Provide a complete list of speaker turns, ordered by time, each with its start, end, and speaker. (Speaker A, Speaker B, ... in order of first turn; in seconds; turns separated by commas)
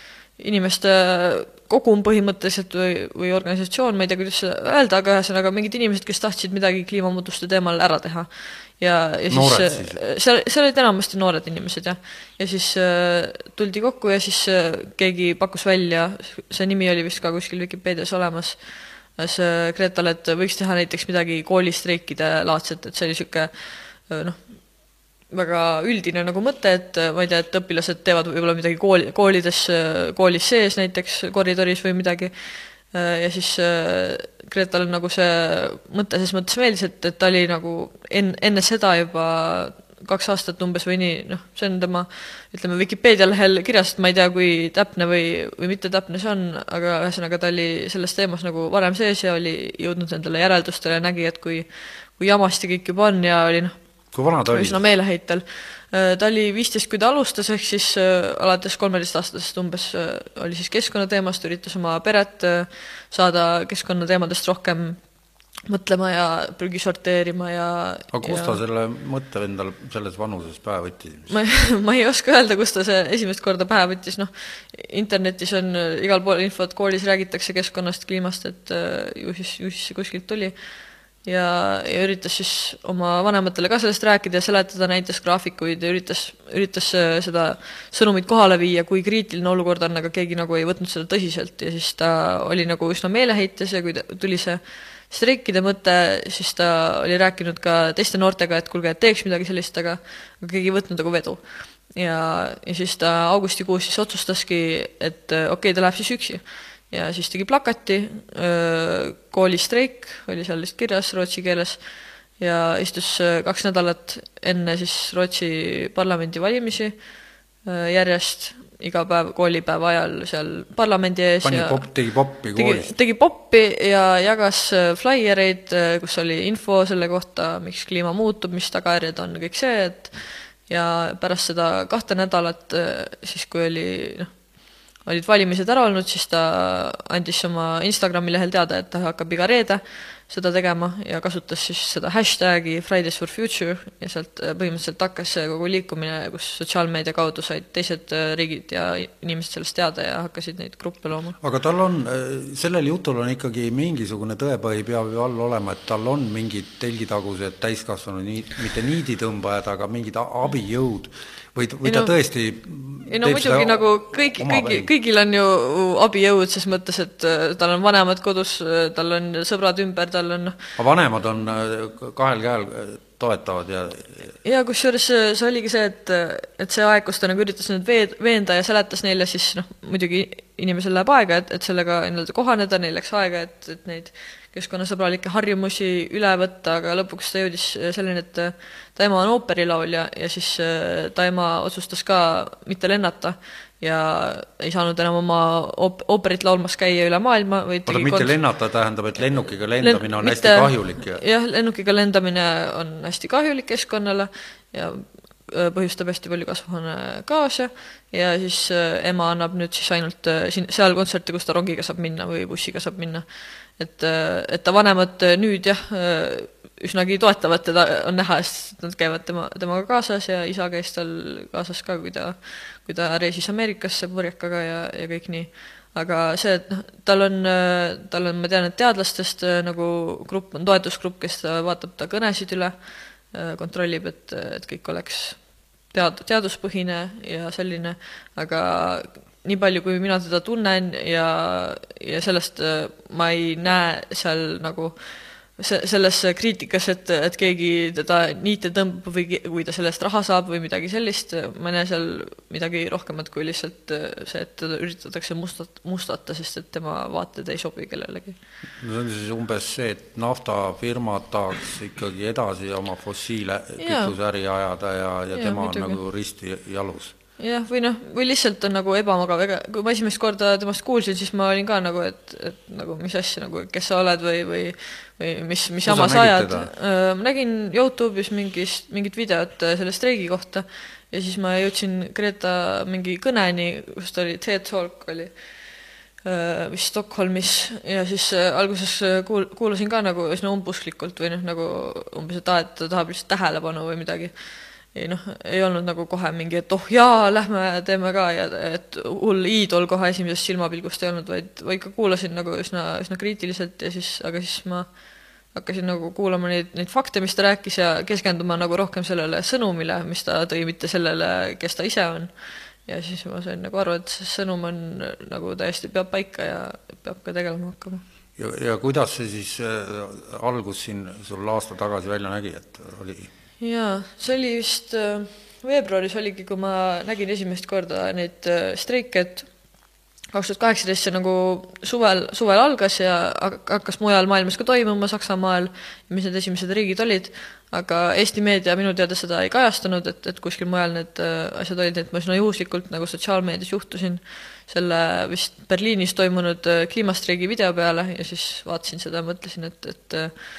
Speaker A: 0.4-8.3, Speaker A: 8.8-18.6, Speaker B: 9.3-10.0, Speaker A: 19.2-23.5, Speaker A: 24.1-24.4, Speaker A: 25.3-32.3, Speaker A: 32.9-51.7, Speaker A: 52.2-53.7, Speaker B: 54.1-54.8, Speaker A: 54.5-65.0, Speaker A: 65.7-68.6, Speaker B: 68.1-71.3, Speaker A: 71.3-80.5, Speaker A: 81.3-94.6, Speaker A: 95.1-101.4, Speaker A: 102.0-111.8, Speaker A: 112.4-117.0, Speaker A: 117.7-121.9, Speaker B: 121.4-123.0, Speaker A: 122.6-130.2, Speaker A: 130.7-134.3, Speaker A: 135.1-151.4, Speaker B: 151.4-164.9, Speaker A: 161.8-162.1, Speaker A: 163.1-170.6, Speaker B: 170.8-174.3, Speaker A: 174.4-198.3, Speaker B: 197.9-201.2, Speaker A: 199.8-213.2, Speaker A: 213.8-232.7, Speaker A: 233.3-235.4, Speaker A: 235.9-244.9, Speaker A: 245.6-258.4, Speaker B: 258.8-267.1, Speaker A: 263.8-264.1, Speaker A: 265.3-266.0, Speaker A: 267.4-285.3, Speaker B: 275.8-276.7, Speaker A: 286.2-294.3, Speaker A: 294.9-304.9, Speaker A: 305.5-312.3, Speaker A: 312.9-318.0, Speaker B: 318.4-323.3, Speaker A: 323.6-329.5, Speaker A: 330.3-350.3